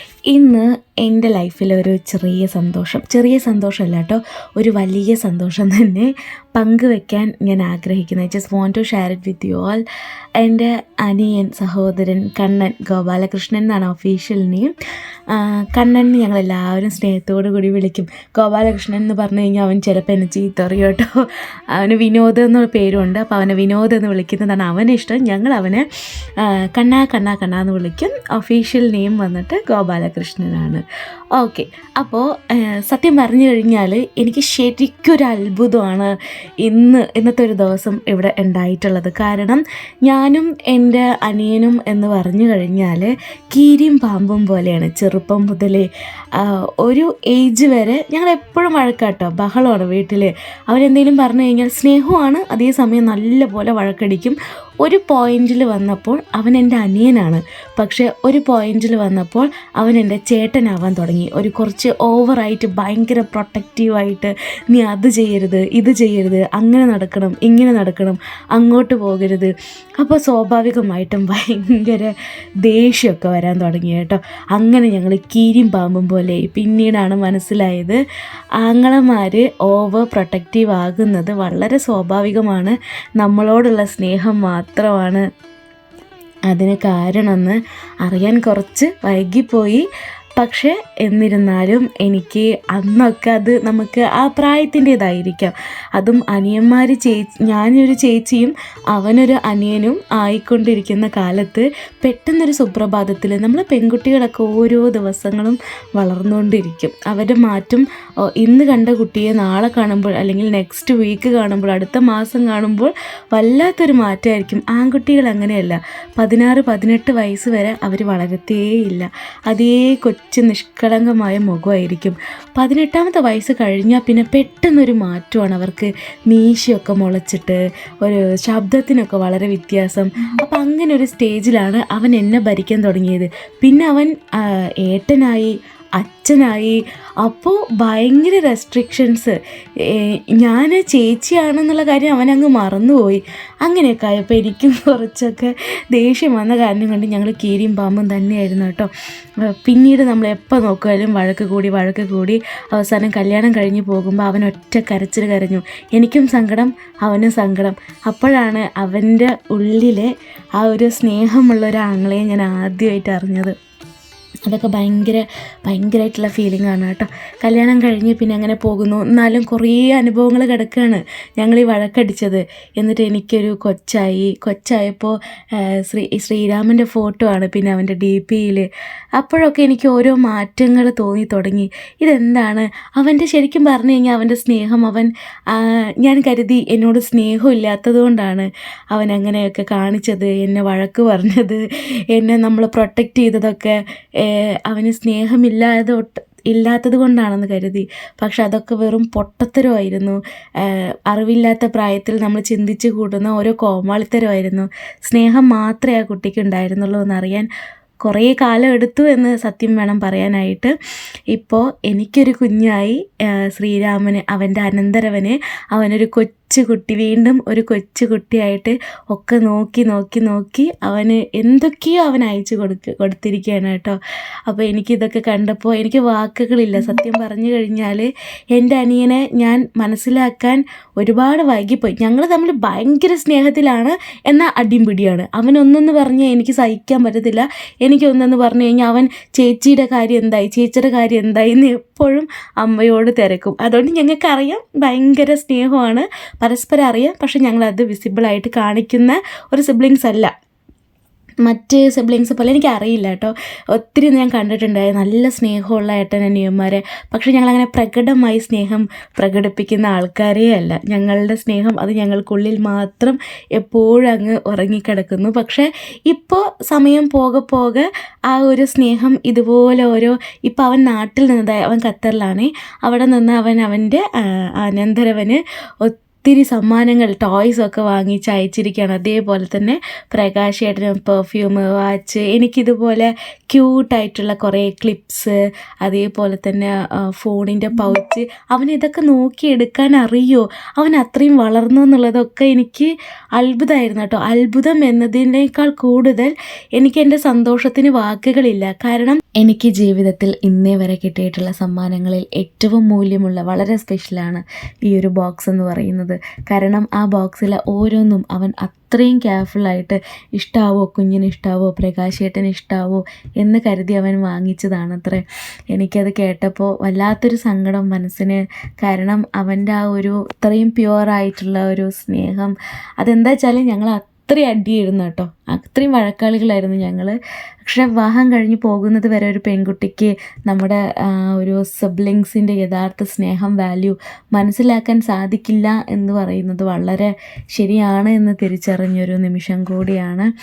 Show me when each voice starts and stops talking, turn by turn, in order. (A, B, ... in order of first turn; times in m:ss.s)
0:00.3-0:09.8 A
0:10.4-0:14.7 A
0:15.3-0:21.1 A
0:21.7-0:25.8 A
0:26.4-0:30.8 A
0:31.4-0:36.1 A
0:36.6-1:12.1 A
1:12.6-1:18.0 A
1:18.6-1:25.2 A
1:26.5-1:29.8 A
1:30.4-1:47.8 A
1:48.4-2:19.4 A
2:19.9-2:28.9 A
2:29.4-2:43.5 A
2:44.5-2:58.7 A
2:59.2-3:27.5 A
3:28.0-3:30.7 A
3:31.3-4:10.3 A
4:11.4-4:34.0 A
4:34.6-5:40.3 A